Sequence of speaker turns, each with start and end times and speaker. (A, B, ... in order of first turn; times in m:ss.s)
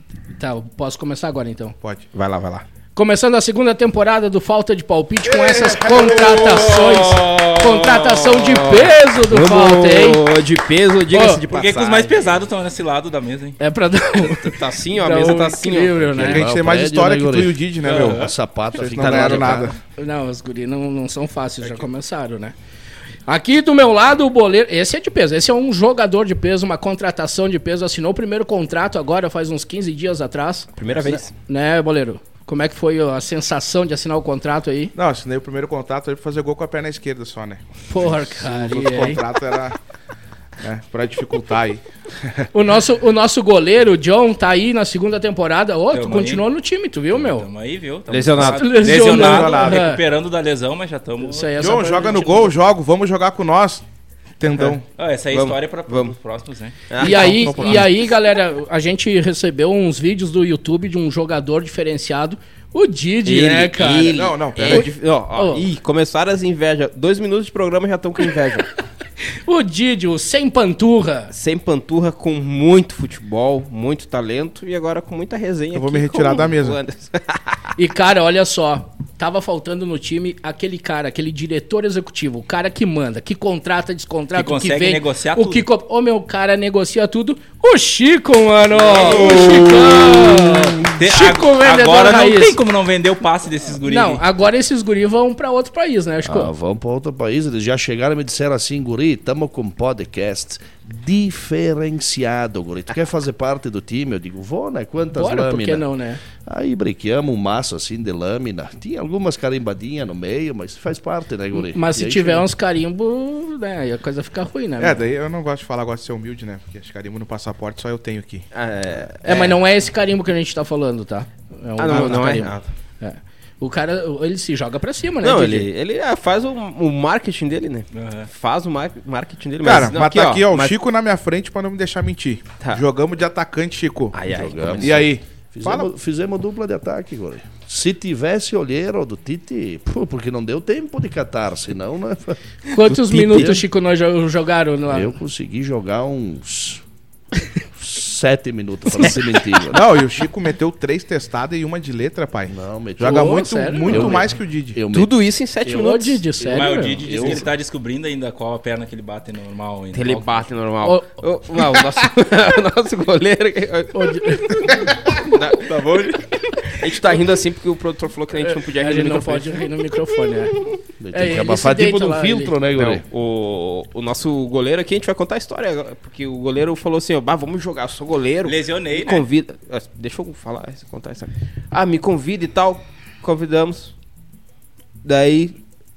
0:00.3-0:01.7 A
0:02.1-0:02.6 B
0:03.0-0:10.2 A
0:05.2-0:06.9 C
0:07.1-0:07.8 D
0:07.2-0:12.2 B
0:11.1-0:11.4 A
0:11.5-0:13.6 D
0:13.6-0:16.4 A
0:14.2-0:16.2 B
0:16.1-0:19.7 E
0:16.2-0:19.8 C
0:18.0-0:18.3 D
0:18.9-0:19.7 B
0:20.0-0:22.5 A
0:21.6-0:21.9 C
0:23.3-0:34.9 A
0:30.8-0:31.3 B
0:34.9-0:39.8 C
0:37.9-0:39.2 A
0:40.6-0:42.5 C
0:42.5-0:47.4 A
0:45.9-0:46.4 D
0:47.1-0:51.5 D
0:48.1-0:48.8 B
0:48.4-0:50.0 A
0:49.0-0:49.9 C
0:51.2-0:52.5 A
0:51.6-0:53.8 C
0:54.4-0:54.8 C
0:55.0-0:56.9 D
0:55.3-0:56.1 B
0:56.9-0:57.8 B
0:57.0-0:57.9 C
0:57.0-1:05.7 A
1:03.2-1:08.7 B
1:04.1-1:04.9 C
1:09.4-1:11.3 A
1:11.3-1:17.6 B
1:15.7-1:16.8 C
1:17.8-1:32.6 A
1:24.3-1:25.6 D
1:28.9-1:29.6 D
1:29.2-1:30.7 E
1:31.0-1:34.2 D
1:33.8-1:36.5 A
1:36.2-1:45.9 E
1:45.2-1:46.2 A
1:46.4-1:52.4 E
1:51.5-1:55.0 A
1:54.8-1:58.5 C
1:58.5-1:59.6 B
1:59.2-2:05.7 A
2:01.8-2:02.7 B
2:05.2-2:10.7 B
2:07.9-2:08.3 D
2:09.6-2:14.2 C
2:14.1-2:15.1 B
2:14.3-2:22.4 E
2:14.8-2:15.9 C
2:22.7-2:25.2 A
2:22.9-2:23.6 B
2:23.0-2:23.6 E
2:24.9-2:26.8 E
2:27.8-2:29.9 E
2:29.7-2:34.8 C
2:32.5-2:35.1 E
2:33.0-2:34.2 A
2:34.9-2:36.2 B
2:35.7-2:37.0 A
2:36.4-2:37.5 E
2:36.5-2:40.4 D
2:39.9-2:44.6 B
2:40.8-2:41.2 A
2:43.9-2:45.4 A
2:45.2-2:45.7 B
2:45.5-2:46.7 D
2:46.6-2:50.7 B
2:48.4-2:50.6 A
2:51.0-2:53.0 E
2:51.1-2:52.5 A
2:52.7-3:03.9 B
2:58.4-2:59.2 D
3:05.0-3:05.6 B